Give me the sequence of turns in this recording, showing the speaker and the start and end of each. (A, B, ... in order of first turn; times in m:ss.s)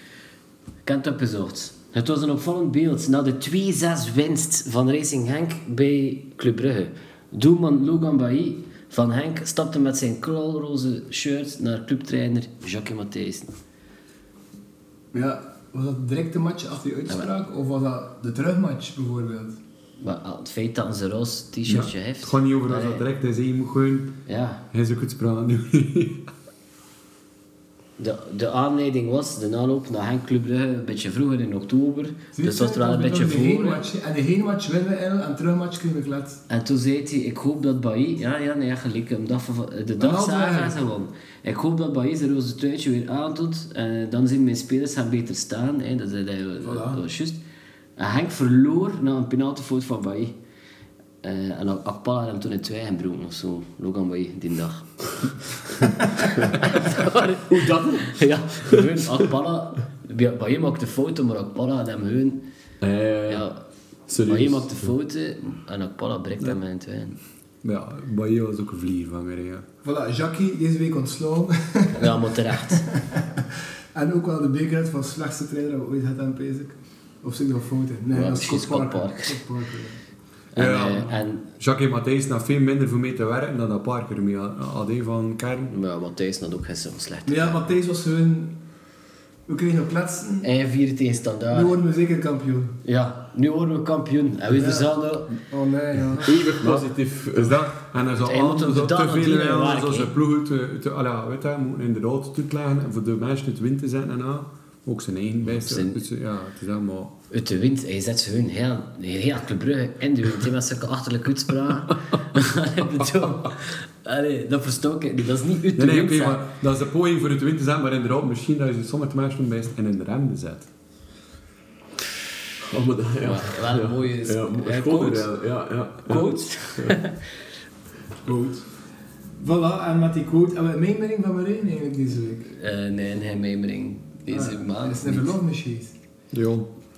0:00.8-0:13.5 A
0:15.1-0:19.6 B
0:20.0-0:23.0 A
0:21.7-0:24.2 C
0:24.3-0:24.6 A
0:24.7-0:26.3 C
0:28.0-0:33.9 A
0:32.4-0:36.4 B
0:36.5-0:47.4 A
0:40.0-0:40.8 B
0:46.6-0:47.0 B
0:48.0-0:50.4 A
0:51.2-0:55.0 A
0:56.5-0:57.5 A
0:57.5-0:58.8 D
0:58.0-1:02.4 A
1:02.8-1:03.5 D
1:03.3-1:03.6 A
1:04.1-1:04.8 D
1:04.3-1:07.2 A
1:07.6-1:09.6 C
1:09.8-1:12.3 B
1:12.0-1:12.9 A
1:12.8-1:20.0 B
1:18.1-1:19.4 A
1:20.5-1:21.5 A
1:20.6-1:25.8 C
1:25.7-1:27.6 A
1:27.3-1:28.5 B
1:29.5-1:30.5 B
1:30.4-1:31.7 A
1:31.5-1:32.8 B
1:32.8-1:35.4 A
1:34.5-1:36.3 B
1:36.3-1:37.6 D
1:36.6-1:47.2 C
1:38.2-1:40.1 A
1:45.5-1:46.0 A
1:47.3-1:56.5 A
1:55.8-2:00.7 C
2:02.6-2:07.0 D
2:03.2-2:05.3 A
2:06.0-2:07.2 A
2:08.2-2:08.7 B
2:09.4-2:12.6 B
2:12.6-2:15.4 A
2:14.3-2:15.9 B
2:16.3-2:16.7 C